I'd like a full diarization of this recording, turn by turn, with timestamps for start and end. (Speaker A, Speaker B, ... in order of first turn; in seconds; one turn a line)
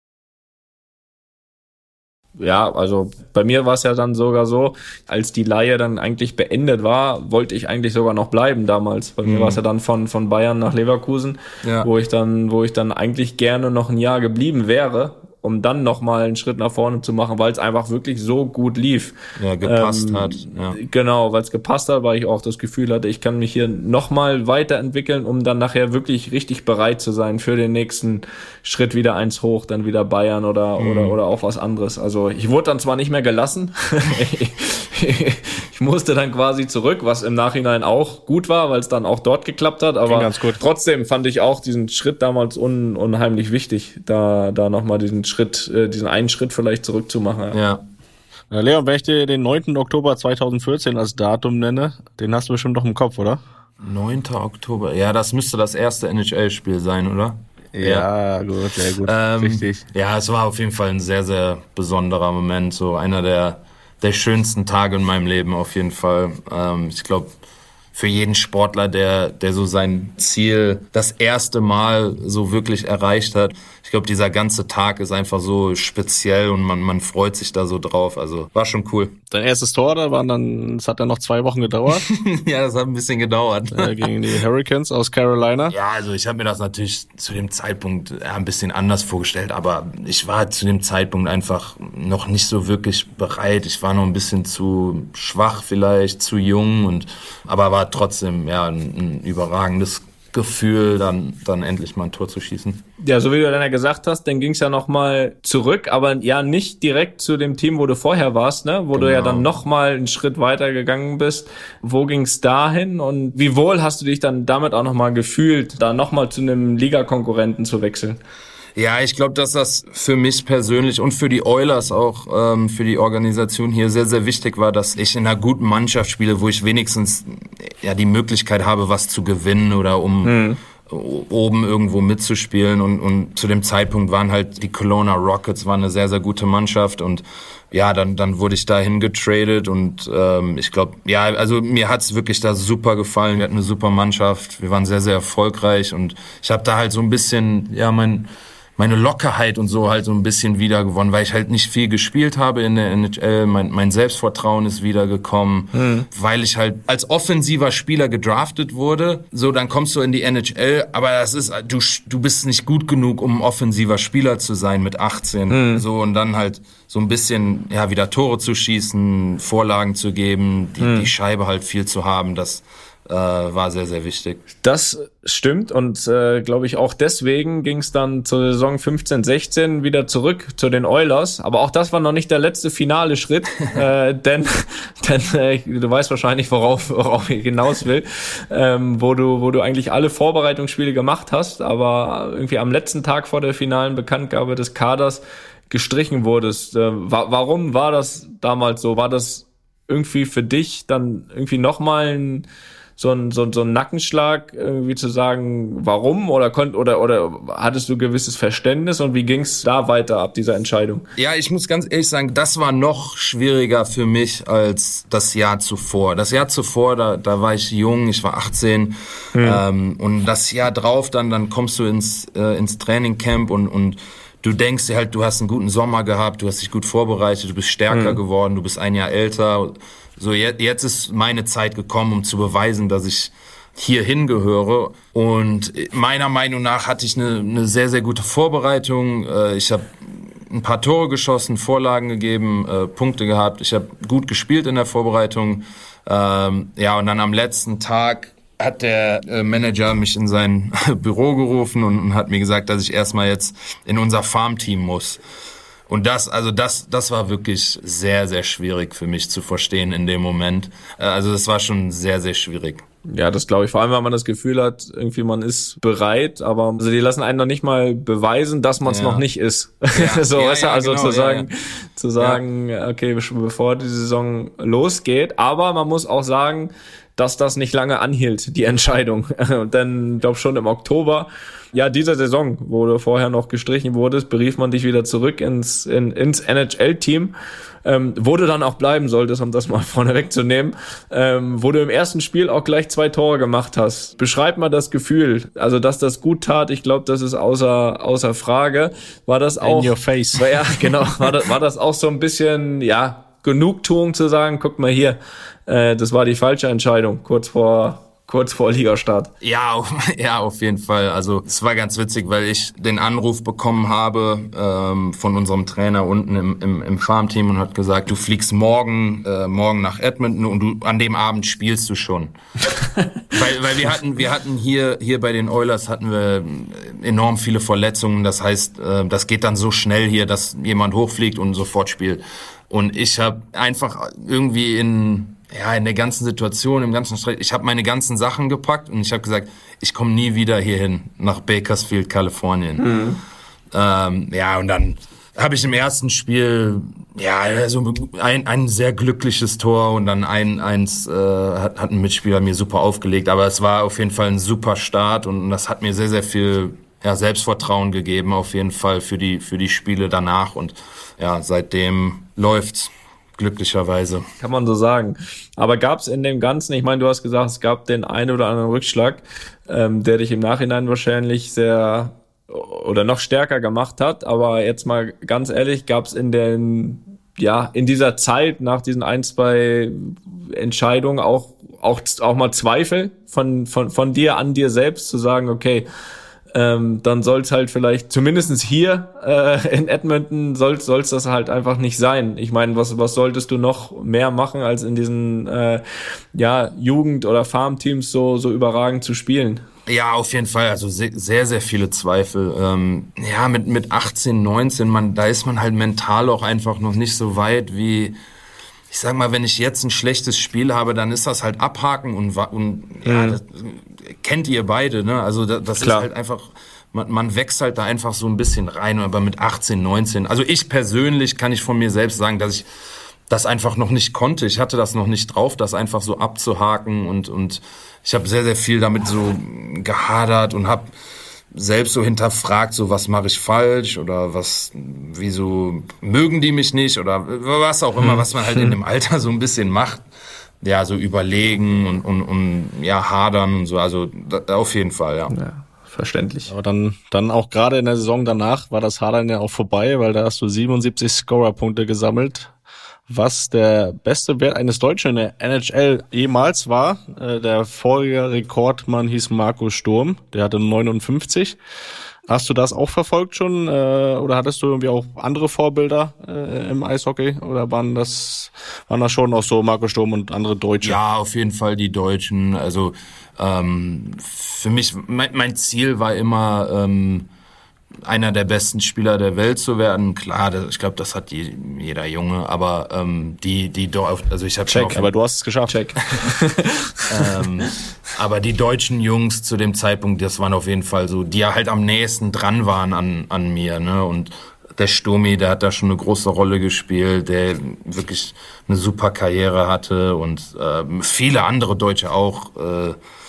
Speaker A: 2.4-47.6
Speaker B: 9.2-9.6
Speaker B: 11.6-11.9
Speaker B: 19.4-20.8
Speaker B: 30.8-31.2
Speaker C: 40.1-40.6
Speaker B: 47.5-47.8
Speaker C: 48.5-53.4
Speaker B: 53.8-58.1
Speaker C: 57.7-59.8
Speaker B: 59.0-67.3
Speaker B: 67.9-79.2
Speaker C: 79.3-82.0
Speaker B: 81.9-84.1
Speaker C: 83.7-85.7
Speaker B: 85.7-102.8
Speaker A: 103.0-118.2
Speaker B: 108.9-109.5
Speaker B: 118.8-174.4
Speaker A: 130.2-130.6
Speaker A: 155.7-156.1
Speaker A: 165.5-165.8
Speaker A: 170.8-171.1
Speaker A: 174.6-202.4
Speaker A: 203.0-211.1
Speaker B: 211.2-255.2
Speaker A: 219.3-219.6
Speaker A: 227.9-228.2
Speaker B: 255.9-262.8
Speaker A: 263.1-287.3
Speaker B: 268.8-269.2
Speaker B: 269.9-271.5
Speaker A: 287.8-309.3
Speaker C: 299.6-301.1
Speaker B: 309.4-322.3
Speaker B: 323.3-343.0
Speaker A: 342.8-343.2
Speaker B: 343.7-364.3
Speaker A: 364.4-385.9
Speaker A: 386.5-395.8
Speaker A: 396.3-399.6
Speaker B: 399.9-408.1
Speaker B: 408.9-422.7
Speaker A: 413.0-413.4
Speaker A: 415.8-416.1
Speaker B: 423.3-430.9
Speaker B: 431.5-440.0
Speaker B: 440.6-445.3
Speaker A: 445.3-446.5
Speaker C: 446.5-452.5
Speaker C: 453.1-461.6
Speaker C: 462.3-471.0
Speaker B: 470.8-477.3
Speaker B: 478.1-485.1
Speaker C: 484.7-485.8
Speaker A: 485.7-486.9
Speaker B: 487.1-503.0